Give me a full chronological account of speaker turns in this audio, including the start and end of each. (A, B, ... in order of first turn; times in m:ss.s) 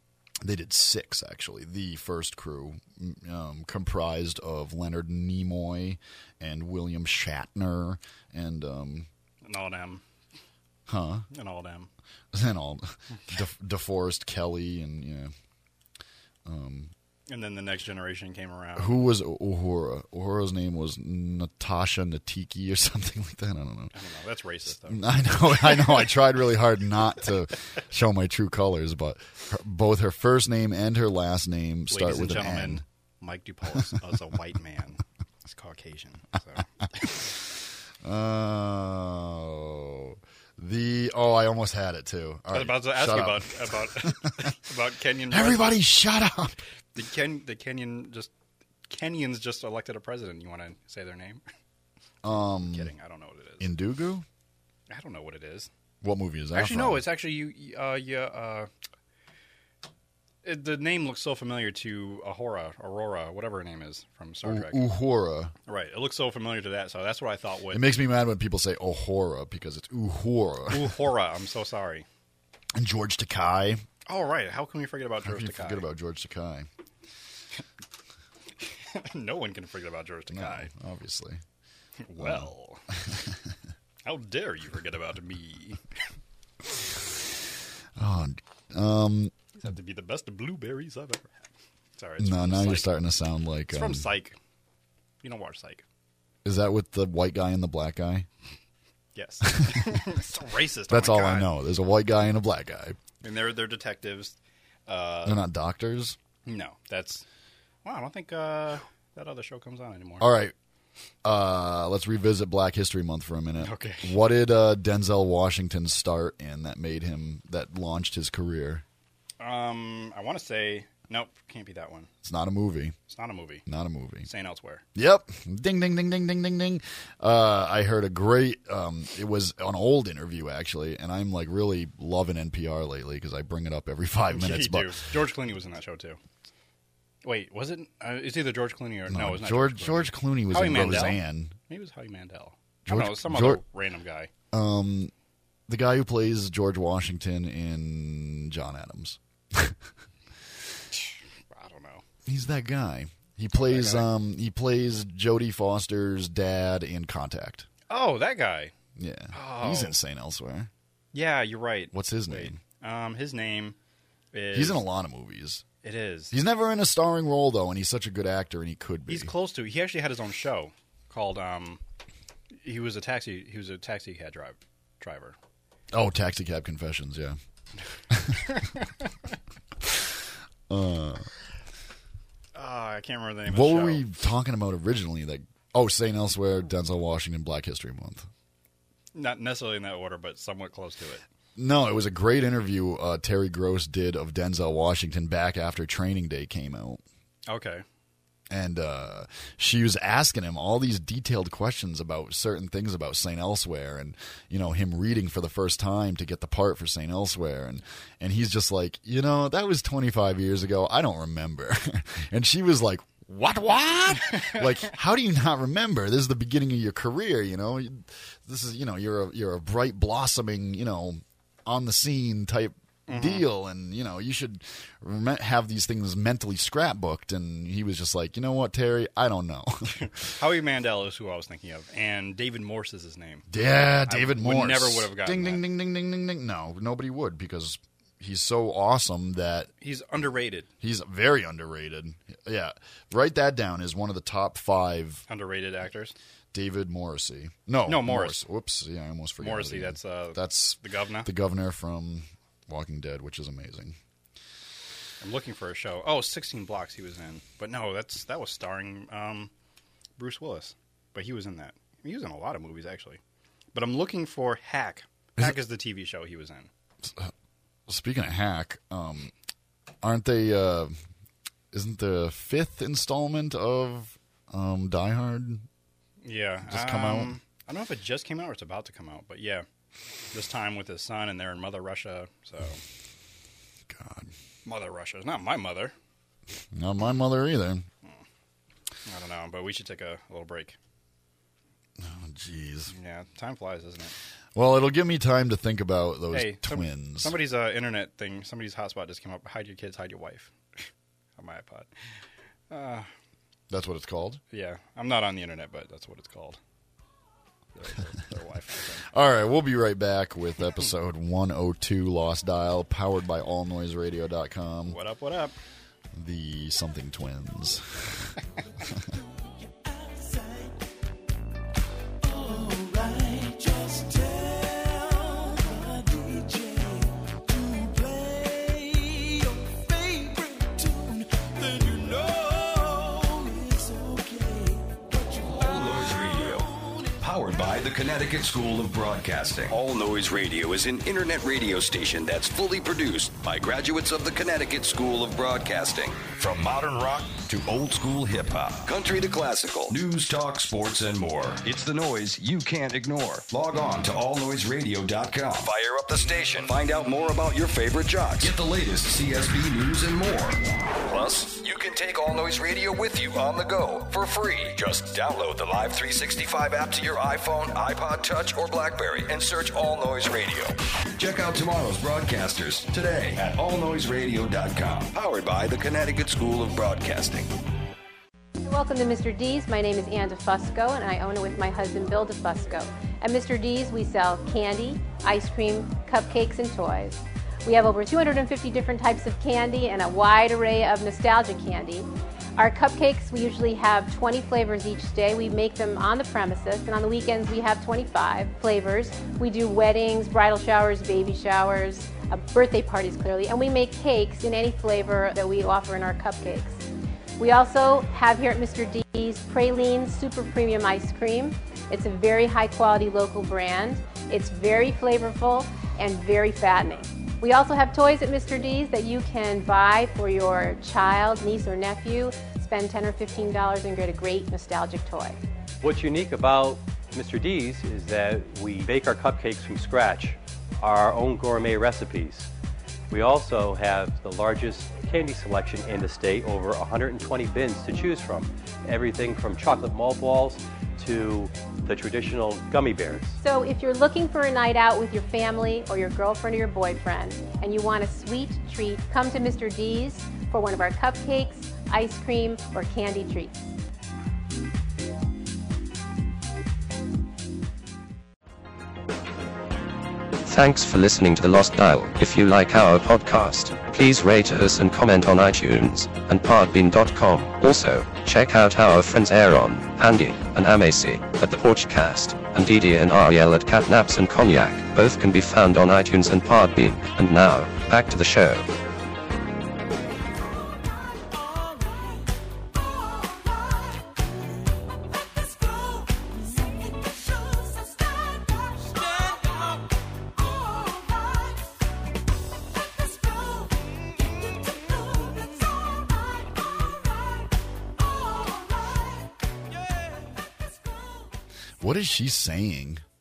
0:00.4-0:09.1 A
0:09.4-0:10.0 B
0:10.9-0:11.3 A
0:11.3-0:11.9 B
0:12.3-0:15.3 A
0:16.4-0:16.9 A
0:17.3-0:19.0 B
0:18.8-0:23.9 A
0:23.9-0:25.0 B
0:24.8-0:32.8 A
0:31.9-0:37.2 B
0:38.0-0:44.5 A
0:42.5-0:45.8 B
0:45.3-0:46.6 A
0:46.9-0:48.3 B
0:48.9-0:51.4 B
0:52.2-0:52.9 A
0:52.5-0:53.7 B
0:53.6-0:54.2 A
0:54.9-0:55.7 B
0:56.0-0:57.0 A
0:56.5-0:58.7 B
1:00.4-1:04.8 B
1:04.4-1:05.5 A
1:05.7-1:08.0 B
1:07.7-1:11.0 A
1:10.7-1:12.1 B
1:12.7-1:13.8 A
1:14.1-1:15.9 B
1:15.2-1:16.7 A
1:18.7-1:20.7 B
1:20.3-1:21.4 A
1:22.0-1:22.8 B
1:22.2-1:23.4 A
1:24.0-1:25.8 B
1:28.0-1:29.3 A
1:29.6-1:31.4 B
1:32.0-1:32.9 B
1:32.2-1:34.1 A
1:33.7-1:34.4 B
1:35.2-1:35.8 B
1:36.4-1:38.3 A
1:39.1-1:41.5 B
1:39.5-1:40.0 A
1:40.9-1:43.0 A
1:43.2-1:44.4 B
1:44.9-1:45.4 B
1:45.2-1:46.2 A
1:46.4-1:47.2 B
1:47.8-1:50.3 B
1:50.2-1:50.5 A
1:51.2-1:58.8 A
1:53.6-1:54.2 B
1:59.4-2:02.1 B
2:02.2-2:03.0 A
2:03.1-2:03.6 B
2:03.6-2:04.3 A
2:04.2-2:04.8 B
2:04.9-2:15.0 A
2:14.3-2:16.2 B
2:17.2-2:24.3 B
2:19.1-2:21.6 A
2:22.9-2:23.6 A
2:24.5-2:25.1 A
2:25.7-2:29.8 A
2:30.9-2:32.0 B
2:32.2-2:37.7 A
2:33.5-2:34.1 B
2:37.9-2:38.7 B
2:39.0-2:40.7 A
2:39.3-2:40.0 B
2:41.1-2:43.8 B
2:41.9-2:42.6 A
2:44.3-2:44.8 B
2:44.5-2:45.6 A
2:45.8-2:46.3 B
2:46.3-2:49.3 A
2:49.1-2:51.8 B
2:52.6-2:55.4 B
2:55.9-2:57.4 A
2:58.1-2:58.6 A
2:58.3-2:59.1 B
2:59.8-3:00.1 A
3:00.7-3:01.3 A
3:02.5-3:04.0 B
3:03.4-3:08.3 A
3:09.1-3:11.2 B
3:11.6-3:17.0 A
3:17.5-3:17.8 B
3:18.5-3:50.1 A
3:43.1-3:43.5 B
3:49.9-3:53.5 B
3:53.5-3:59.7 A
3:54.1-3:55.6 B
3:59.8-4:00.7 B
4:00.8-4:05.2 A
4:05.3-4:06.1 B
4:06.5-4:14.0 A
4:07.9-4:08.4 B
4:09.4-4:11.3 B
4:15.2-4:19.5 B
4:20.2-4:23.2 B
4:23.7-4:26.7 B
4:27.0-4:27.3 A
4:27.9-4:29.3 A
4:30.0-4:31.0 A
4:31.7-4:35.6 A
4:36.2-4:39.6 B
4:36.6-4:37.4 A
4:40.3-4:42.8 B
4:43.9-4:44.3 A
4:44.6-4:45.9 B
4:46.7-4:47.9 A
4:49.1-4:50.8 B
4:52.0-4:52.9 A
4:52.9-4:54.1 B
4:54.5-4:57.4 A
4:56.3-5:00.8 B
5:01.4-5:01.9 B
5:02.7-5:03.1 B
5:03.7-5:04.4 A
5:04.5-5:06.6 B
5:07.7-5:09.1 B
5:09.1-5:15.0 A
5:14.9-5:15.6 B
5:16.1-5:18.4 A
5:19.1-5:20.8 C
5:22.2-5:37.7 C
5:35.6-5:36.7 D
5:37.2-6:17.5 D
6:18.6-6:46.8 E
6:47.4-7:05.4 E
7:05.8-7:12.5 F
7:13.1-7:23.4 F
7:23.4-7:33.7 E
7:40.4-7:58.7 G
8:01.3-8:04.2 C
8:05.4-8:11.6 C
8:13.3-8:13.7 C
8:14.5-8:16.0 C
8:18.0-8:18.9 C
8:19.8-8:20.3 C
8:21.8-8:23.0 A